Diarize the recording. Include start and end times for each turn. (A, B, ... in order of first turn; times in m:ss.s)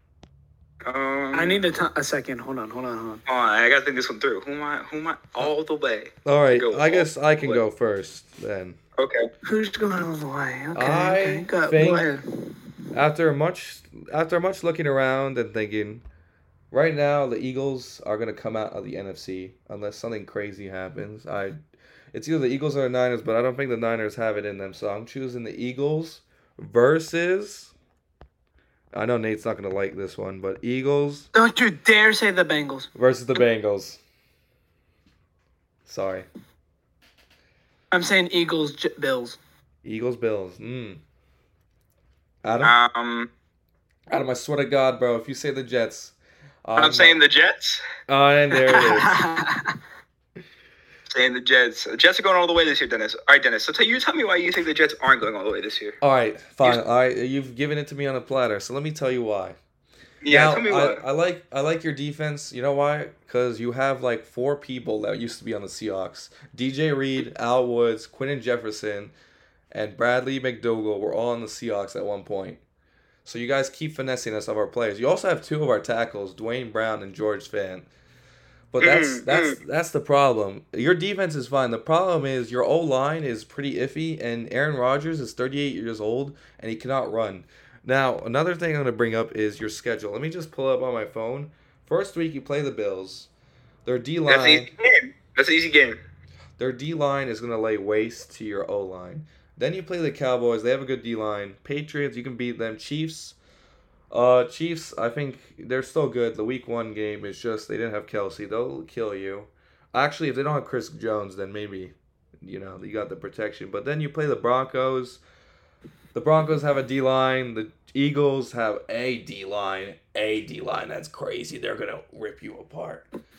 0:00.8-0:01.6 A
0:01.3-0:03.2 B
0:03.3-0:07.6 A
0:06.2-0:08.8 C
0:09.0-0:09.3 A
0:09.4-0:12.6 B
0:10.7-0:12.1 C
0:12.9-0:16.0 C
0:16.7-0:21.6 C
0:22.1-0:27.7 C
0:28.9-0:31.3 C
0:31.3-0:32.9 B
0:32.9-0:34.0 C
0:35.8-0:36.2 C
0:37.9-0:39.4 B
0:39.8-0:41.0 C
0:42.4-0:42.7 C
0:42.6-0:43.3 A
0:44.1-0:47.2 C
0:46.8-0:47.8 A
0:48.1-0:49.2 C
0:48.6-0:49.7 B
0:51.1-0:56.0 A
0:56.0-0:59.6 C
1:00.2-1:01.0 A
1:00.3-1:09.1 C
1:09.7-1:12.6 C
1:13.2-1:17.9 C
1:18.7-1:33.3 C
1:18.8-1:19.6 A
1:33.8-1:34.7 C
1:34.3-1:36.0 A
1:36.6-1:43.4 C
1:44.1-1:55.2 C
1:56.1-2:03.0 C